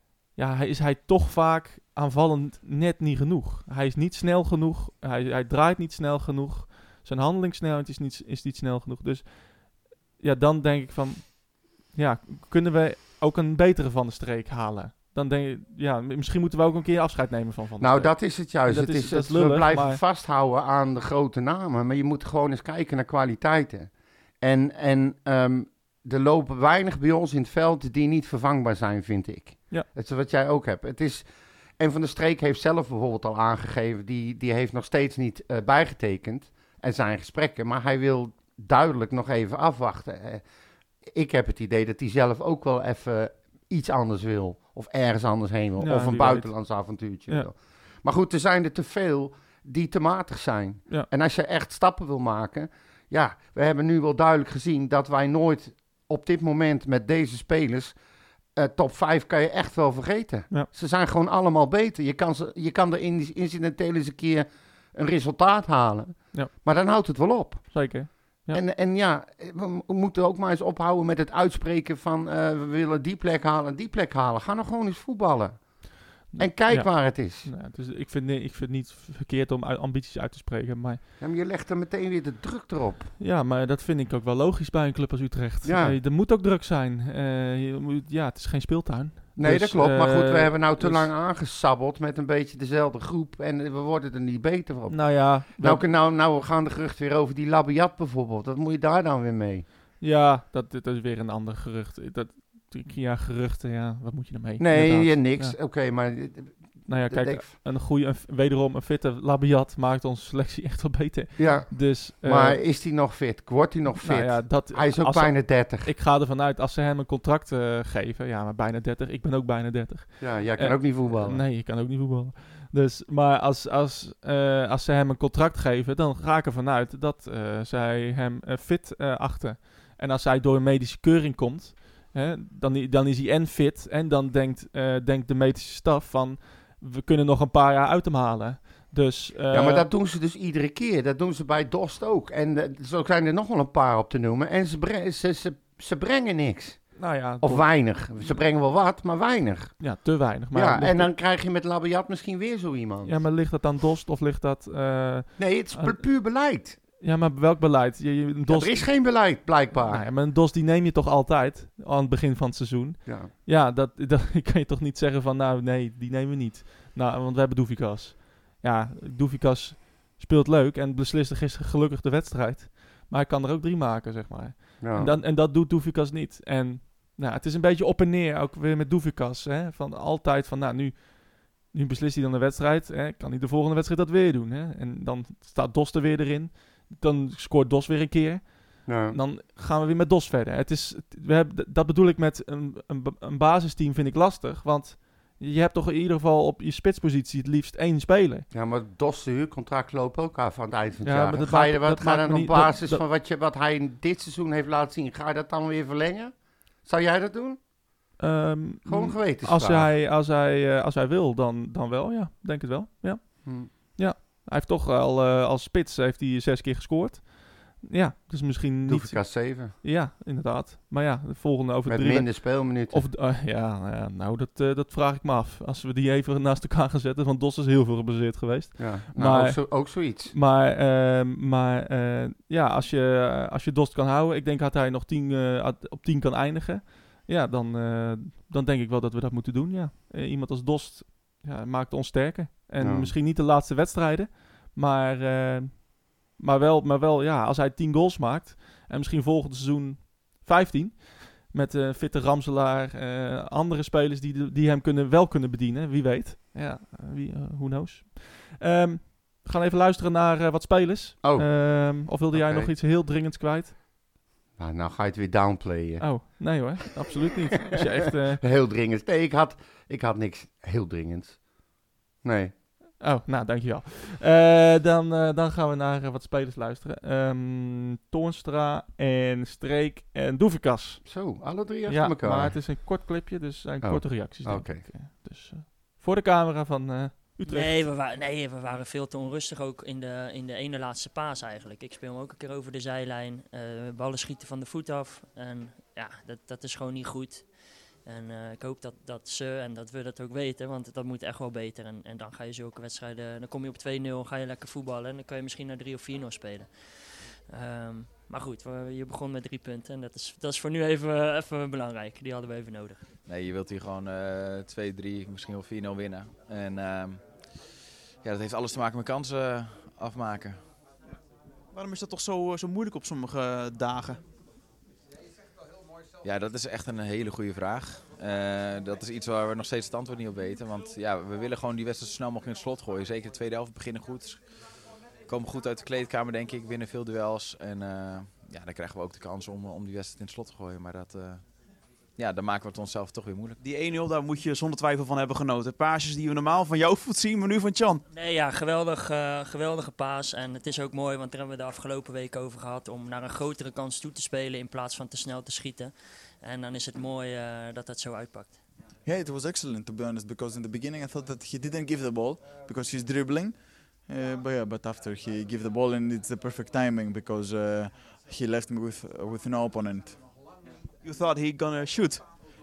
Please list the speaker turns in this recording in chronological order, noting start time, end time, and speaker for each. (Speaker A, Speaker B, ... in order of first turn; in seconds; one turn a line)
Speaker A: 0.3-20.0
Speaker B: 17.8-31.3
Speaker B: 31.8-40.4
Speaker B: 41.0-58.0
Speaker A: 45.8-46.5
Speaker B: 58.5-67.8
Speaker A: 67.7-68.6
Speaker B: 68.5-75.6
Speaker A: 76.3-81.0
Speaker B: 76.3-77.5
Speaker B: 81.2-83.1
Speaker A: 83.2-91.1
Speaker B: 85.6-86.0
Speaker B: 89.4-99.6
Speaker A: 94.9-95.8
Speaker A: 100.0-105.6
Speaker B: 104.6-107.5
Speaker A: 106.9-112.6
Speaker B: 111.4-115.9
Speaker A: 113.9-139.9
Speaker B: 120.2-121.4
Speaker B: 139.5-149.8
Speaker A: 147.0-147.7
Speaker A: 149.8-151.1
Speaker B: 150.5-153.2
Speaker A: 153.0-156.0
Speaker B: 155.4-156.8
Speaker A: 157.0-159.1
Speaker B: 158.5-160.1
Speaker A: 159.7-198.4
Speaker B: 163.1-163.3
Speaker B: 174.8-175.1
Speaker B: 188.8-189.2
Speaker B: 198.5-206.3
Speaker A: 201.0-203.0
Speaker B: 206.8-207.6
Speaker A: 208.2-263.7
Speaker B: 208.8-209.9
Speaker B: 213.4-213.7
Speaker B: 218.8-219.7
Speaker B: 221.8-223.0
Speaker B: 228.8-230.3
Speaker B: 242.8-243.1
Speaker B: 261.2-262.7
Speaker B: 264.6-266.1
Speaker A: 266.0-268.4
Speaker B: 268.4-271.4
Speaker B: 272.2-272.5
Speaker A: 273.0-281.0
Speaker B: 281.0-282.6
Speaker A: 281.9-287.8
Speaker B: 283.8-284.9
Speaker C: 287.5-297.5
Speaker C: 298.1-313.0
Speaker D: 313.2-317.2
Speaker D: 318.2-320.6
Speaker E: 321.7-324.2
Speaker D: 326.2-334.4
Speaker D: 335.3-341.4
Speaker D: 342.2-343.6
Speaker E: 343.6-348.0
Speaker C: 348.1-358.6
Speaker F: 359.0-370.2
Speaker E: 371.0-372.2